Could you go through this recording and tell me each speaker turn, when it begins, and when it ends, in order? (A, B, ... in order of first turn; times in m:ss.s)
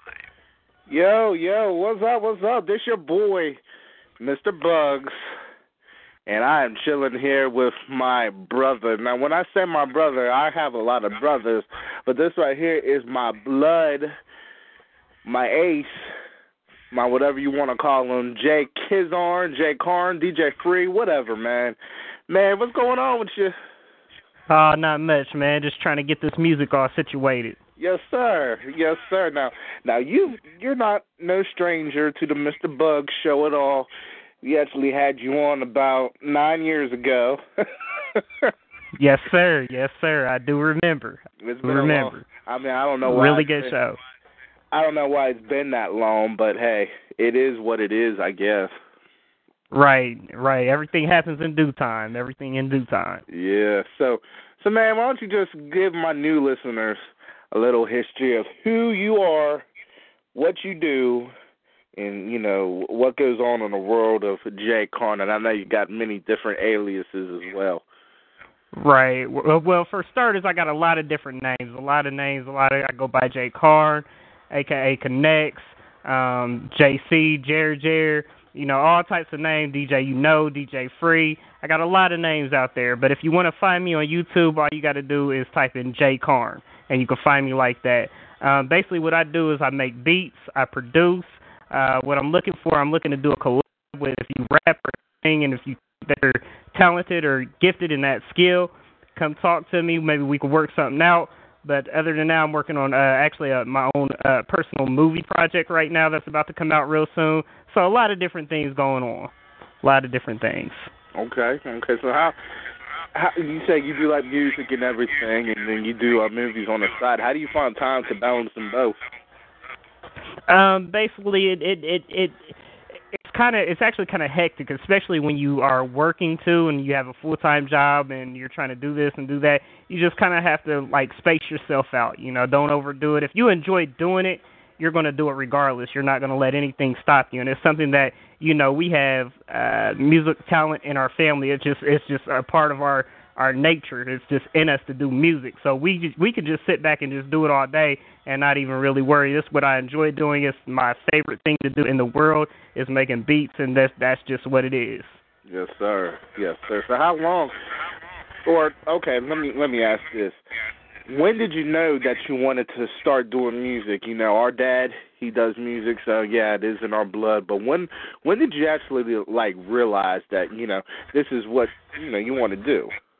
0:00.9-0:03.6 A
0:04.2-0:05.1 A
0:06.3-0:14.1 A
0:15.2-0:16.1 A
0:16.9-0:21.8 A
0:22.3-0:23.6 A
0:24.5-0:27.6 B
0:27.8-0:33.9 A
0:34.4-0:38.5 A
0:39.0-0:42.2 B
0:41.4-0:43.8 A
0:43.0-0:44.0 B
0:44.7-0:48.7 A
0:49.7-0:53.2 B
0:53.3-0:57.0 A
0:57.5-0:59.7 A
1:00.3-1:01.3 A
1:02.0-1:07.8 A
1:08.7-1:50.9 B
1:51.2-1:52.4 A
1:53.1-1:59.0 A
2:00.5-2:02.6 B
2:03.1-2:35.2 B
2:35.5-2:37.5 A
2:38.4-2:40.4 A
2:41.1-2:52.9 A